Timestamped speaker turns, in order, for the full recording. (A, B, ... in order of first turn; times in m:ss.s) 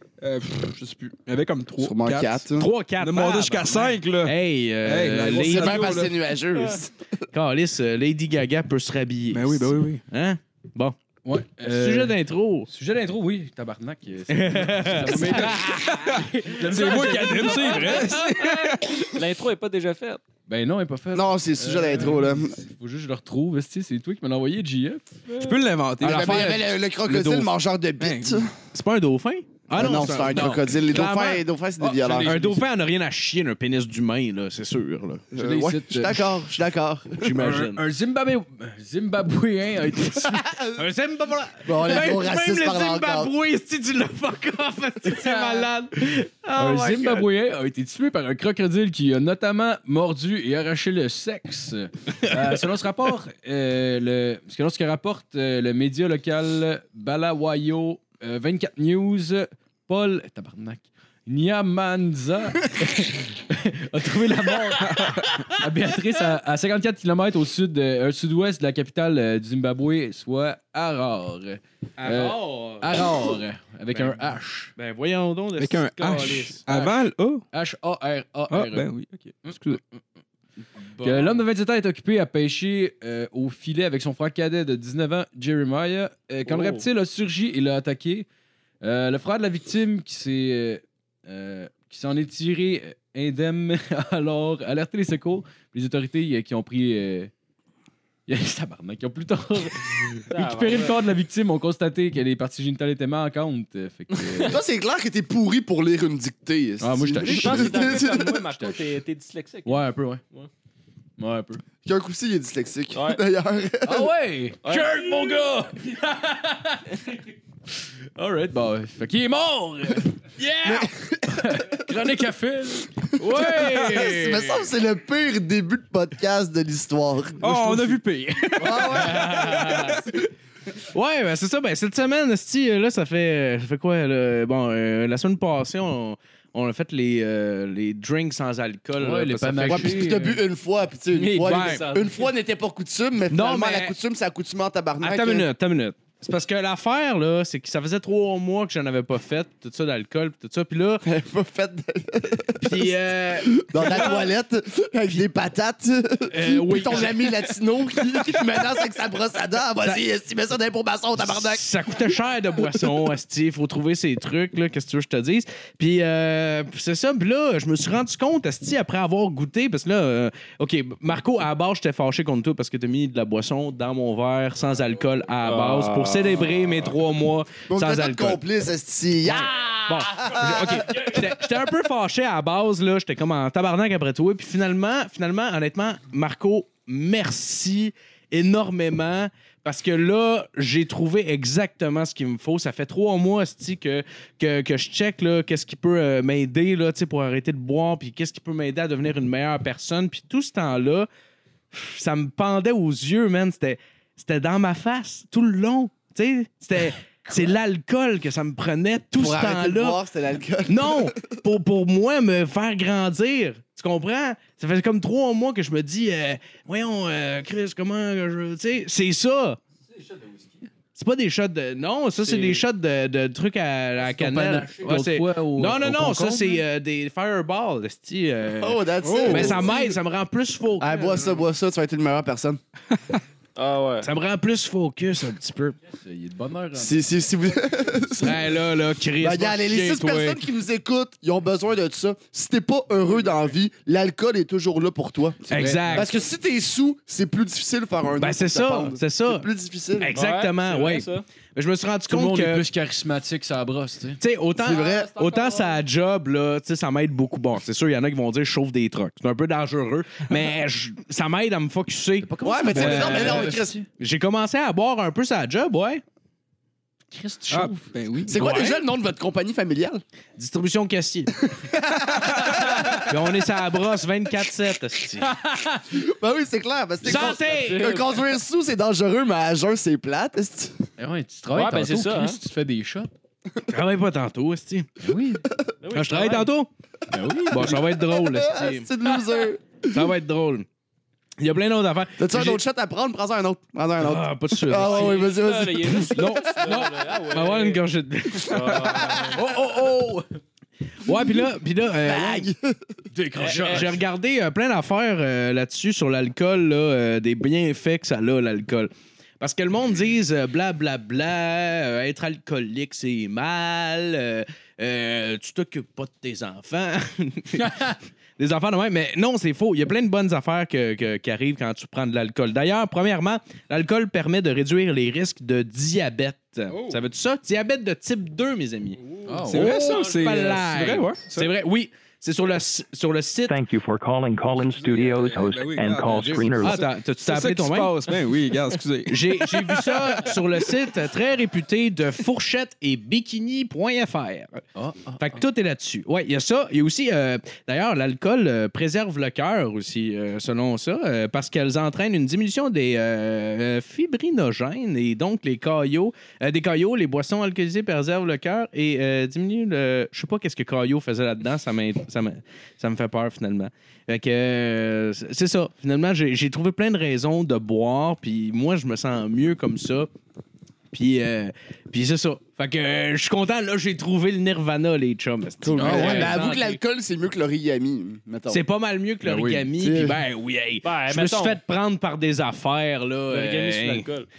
0:00.2-0:02.4 A
0:01.8-0:02.7 B
0:02.6-0:06.0 C
0:03.0-0:06.1 A
0:05.5-0:07.2 B
0:07.3-0:11.0 C
0:09.3-0:10.0 A
0:11.2-0:18.1 D
0:11.6-0:12.7 C
0:14.3-0:16.9 C
0:15.2-0:19.2 A
0:17.3-0:20.2 E
0:20.5-0:25.1 D
0:21.1-0:22.6 B
0:25.3-0:25.6 E
0:25.3-0:28.5 A
0:26.0-0:28.5 B
0:26.0-0:26.6 C
0:28.7-0:31.4 C
0:29.8-0:32.3 B
0:31.8-0:32.6 D
0:32.2-0:35.2 C
0:35.3-0:37.3 B
0:35.4-0:36.4 D
0:37.2-0:37.8 C
0:37.4-0:40.5 D
0:40.7-0:47.3 C
0:41.6-0:43.3 B
0:46.6-1:14.7 D
1:04.9-1:05.3 A
1:12.0-1:12.9 C
1:13.9-1:14.2 C
1:14.8-1:16.6 C
1:15.6-1:17.4 A
1:16.7-1:18.9 D
1:18.5-1:19.8 A
1:21.0-1:21.4 C
1:21.0-1:28.2 D
1:26.5-1:26.9 E
1:28.8-1:37.3 D
1:38.3-1:44.6 D
1:40.3-1:41.0 E
1:44.4-1:48.4 B
1:46.8-1:48.8 D
1:47.2-1:50.5 E
1:49.6-1:50.2 D
1:51.2-1:51.6 D
1:51.8-1:54.1 B
1:52.9-1:53.2 E
1:53.8-1:57.0 D
1:54.6-1:55.4 E
1:58.2-2:04.4 D
2:00.6-2:01.8 B
2:03.4-2:04.6 C
2:03.8-2:07.4 B
2:07.4-2:09.0 A
2:07.5-2:07.9 D
2:08.6-2:09.4 B
2:08.6-2:10.0 D
2:09.6-2:09.9 A
2:10.9-2:19.9 C
2:19.0-2:20.4 D
2:19.7-2:25.5 B
2:21.1-2:21.7 D
2:21.4-2:22.3 E
2:21.5-2:21.8 C
2:23.3-2:24.0 C
2:25.0-2:31.0 C
2:31.0-2:41.6 B
2:32.6-2:34.2 C
2:36.3-2:37.4 C
2:41.2-2:58.4 C
2:55.4-2:56.7 E
2:57.7-3:01.1 B
2:59.3-3:21.1 C
3:21.7-3:30.0 C
3:29.2-3:31.2 B
3:30.7-3:39.6 C
3:39.9-3:40.7 D
3:41.0-3:51.2 C
3:44.0-3:46.6 D
3:48.6-3:49.8 B
3:49.2-3:49.5 A
3:50.8-3:52.6 B
3:53.6-3:54.1 E
3:54.0-3:55.8 C
3:56.0-3:57.0 D
3:56.8-3:58.4 B
3:58.2-4:00.4 C
3:59.2-4:10.1 B
4:05.5-4:06.1 C
4:05.5-4:06.1 D
4:08.2-4:09.5 C
4:10.0-4:12.6 C
4:10.1-4:11.2 E
4:12.1-4:14.2 D
4:14.2-4:26.0 C
4:14.5-4:15.1 B
4:14.6-4:15.8 E
4:22.4-4:23.8 D
4:22.4-4:23.8 B
4:27.1-4:27.8 D
4:27.5-4:28.4 A
4:28.2-4:30.0 B
4:28.3-4:28.8 C
4:30.4-4:31.3 C
4:31.5-4:32.6 B
4:32.9-4:35.3 C
4:35.9-4:40.8 B
4:37.0-4:38.0 C
4:37.0-4:38.2 E
4:41.0-4:43.1 D
4:41.5-4:42.4 E
4:43.7-4:44.9 C
4:45.0-4:45.4 D
4:45.8-4:46.5 E
4:45.9-4:46.7 C
4:47.1-4:47.8 D
4:47.5-4:48.9 C
4:48.0-4:49.8 B
4:49.8-4:50.6 C
4:51.4-4:52.6 C
4:52.2-4:56.2 B
4:54.0-4:55.3 C
4:54.7-4:57.8 E
4:56.1-4:59.1 C
4:58.5-4:59.5 E
4:59.3-5:00.4 D
5:01.0-5:02.5 C
5:02.0-5:02.9 B
5:03.1-5:04.0 D
5:03.4-5:03.9 E
5:03.5-5:29.0 C
5:17.6-5:17.9 D
5:26.7-5:27.0 A
5:29.0-5:31.5 A
5:29.2-5:29.8 D
5:29.5-5:33.5 C
5:29.7-5:30.3 E
5:33.5-5:36.8 F
5:34.7-5:40.4 A
5:36.6-5:38.0 C
5:39.1-5:44.6 C
5:44.8-5:45.4 D
5:45.2-6:10.1 C
6:10.9-6:16.8 C
6:15.6-6:18.6 B
6:15.7-6:16.3 D
6:18.5-6:24.1 C
6:19.2-6:19.7 D
6:19.8-6:20.2 B
6:20.8-6:21.6 E
6:23.3-6:24.3 E